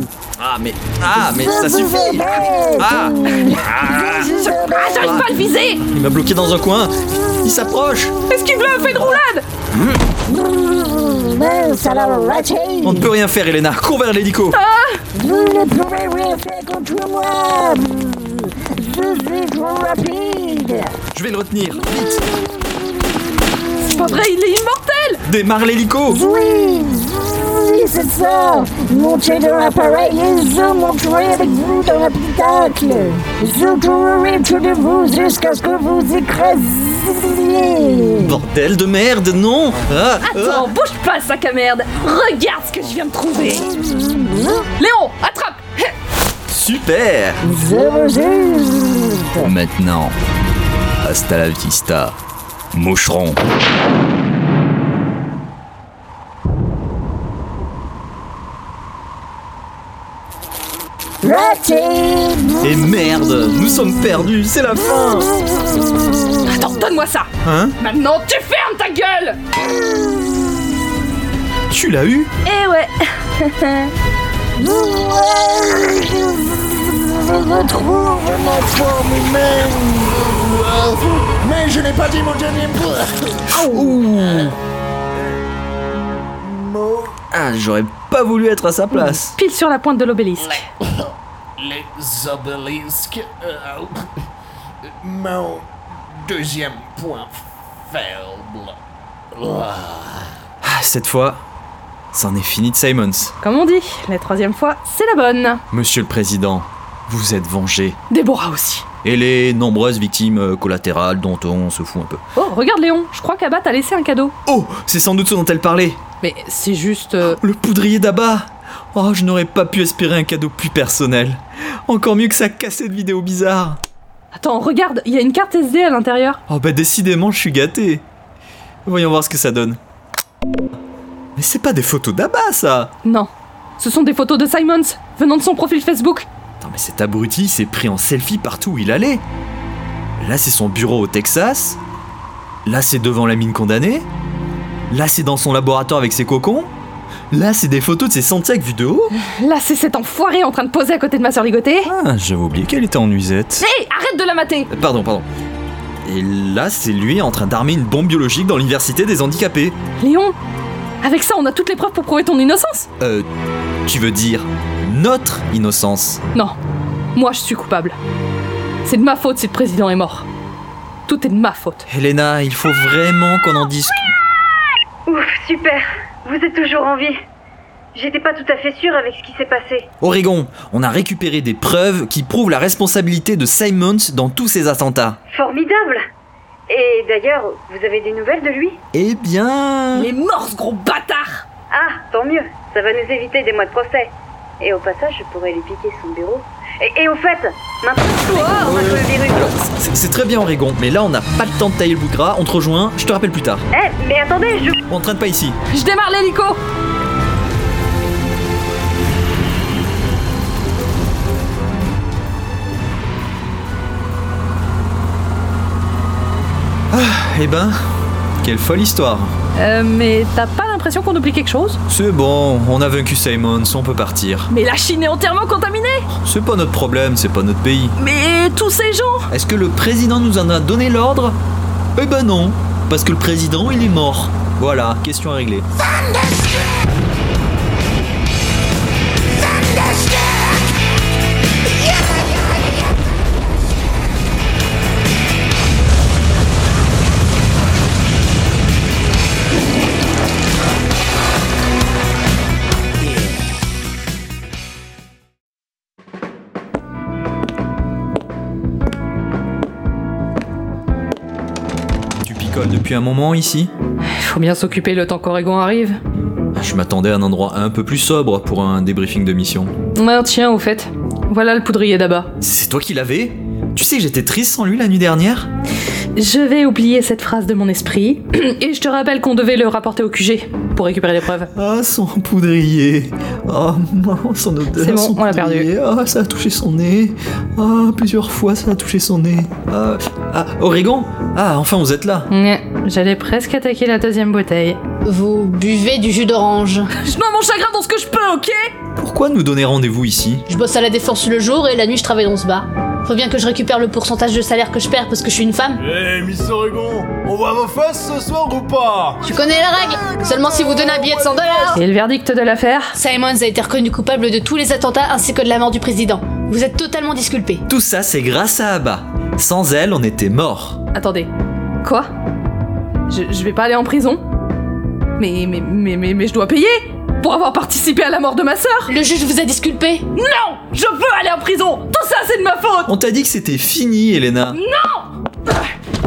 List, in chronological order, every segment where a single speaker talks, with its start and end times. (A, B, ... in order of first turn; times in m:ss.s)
0:00.4-0:02.3 A
0:01.1-0:05.2 B
0:02.8-0:04.2 A
0:04.1-0:05.8 C
0:05.0-0:05.3 A
0:05.8-0:08.1 A
0:08.3-0:09.5 C
0:10.3-0:13.1 B
0:12.8-0:14.6 A
0:14.5-0:15.0 C
0:15.1-0:20.9 B
0:21.1-0:22.3 A
0:23.8-0:25.2 C
0:25.2-0:26.2 A
0:26.1-0:38.4 B
0:38.2-0:40.7 A
0:40.2-0:43.7 C
0:44.2-0:44.6 B
0:44.8-0:45.9 C
0:46.5-0:47.4 A
0:47.4-0:49.5 B
0:49.4-0:50.2 A
0:51.0-0:52.2 A
0:52.7-0:53.4 A
1:01.2-1:02.8 B
1:02.6-1:05.3 A
1:06.5-1:09.4 C
1:07.4-1:07.8 A
1:11.7-1:12.3 A
1:12.4-1:13.9 C
1:14.6-1:24.5 D
1:23.5-1:23.9 C
1:23.7-1:24.5 A
1:26.4-1:27.2 D
1:27.3-1:29.4 A
1:28.9-1:30.6 C
1:31.6-1:34.0 D
1:35.0-1:38.8 D
1:39.3-1:40.3 D
1:40.6-1:41.4 A
1:42.1-1:43.3 A
1:43.4-1:45.6 C
1:45.7-1:48.0 A
1:48.1-1:48.9 C
1:49.0-1:52.2 A
1:52.4-1:54.3 C
1:54.5-1:56.0 A
1:56.2-1:57.4 C
1:57.3-2:03.8 A
2:04.3-2:06.4 C
2:06.5-2:08.0 A
2:08.9-2:09.8 A
2:11.4-2:12.9 A
2:13.0-2:16.3 C
2:16.6-2:19.2 A
2:20.2-2:21.8 A
2:22.7-2:24.1 A
2:24.9-2:26.7 A
2:27.3-2:29.1 A
2:29.2-2:31.9 C
2:31.9-2:33.7 A
2:33.6-2:34.7 C
2:34.7-2:35.3 A
2:36.0-2:39.8 A
2:40.0-2:40.4 C
2:41.0-2:42.9 C
2:43.0-2:43.3 A
2:43.9-2:46.2 A
2:47.2-2:48.0 C
2:48.8-2:50.3 C
2:51.1-2:51.8 C
2:51.9-2:54.1 A
2:55.1-2:57.2 E
2:57.9-2:59.9 E
3:00.0-3:05.2 A
3:05.3-3:06.0 E
3:06.7-3:08.8 E
3:08.9-3:10.1 A
3:10.0-3:11.4 C
3:11.7-3:19.6 E
3:18.1-3:18.9 C
3:18.6-3:23.7 A
3:23.7-3:24.8 E
3:24.9-3:25.6 A
3:25.7-3:26.6 C
3:36.9-3:37.8 A
3:38.4-3:39.3 A
3:39.6-3:41.8 C
3:41.9-3:44.5 A
3:44.5-3:46.1 C
3:46.1-3:48.0 A
3:48.0-3:49.3 C
3:49.3-3:51.4 A
3:52.0-3:55.7 A
4:22.2-4:23.7 A
4:24.0-4:26.0 C
4:26.6-4:29.7 A
4:30.0-4:32.3 C
4:32.4-4:35.5 A
4:36.2-4:41.5 C
4:41.6-4:52.3 A
4:44.8-4:45.7 C
4:52.3-4:54.8 C
4:55.0-4:56.9 F
4:57.0-4:58.7 C
4:59.0-5:00.4 A
5:00.5-5:05.8 F
5:06.0-5:09.1 G
5:06.2-5:07.3 D
5:08.1-5:08.4 D
5:09.2-5:11.8 F
5:11.7-5:13.0 C
5:13.0-5:17.6 F
5:17.7-5:20.8 A
5:20.9-5:21.3 C
5:21.8-5:22.1 C
5:23.1-5:24.2 C
5:25.2-5:28.9 C
5:28.9-5:30.1 F
5:30.1-5:32.9 C
5:32.9-5:34.6 A
5:34.5-5:35.7 C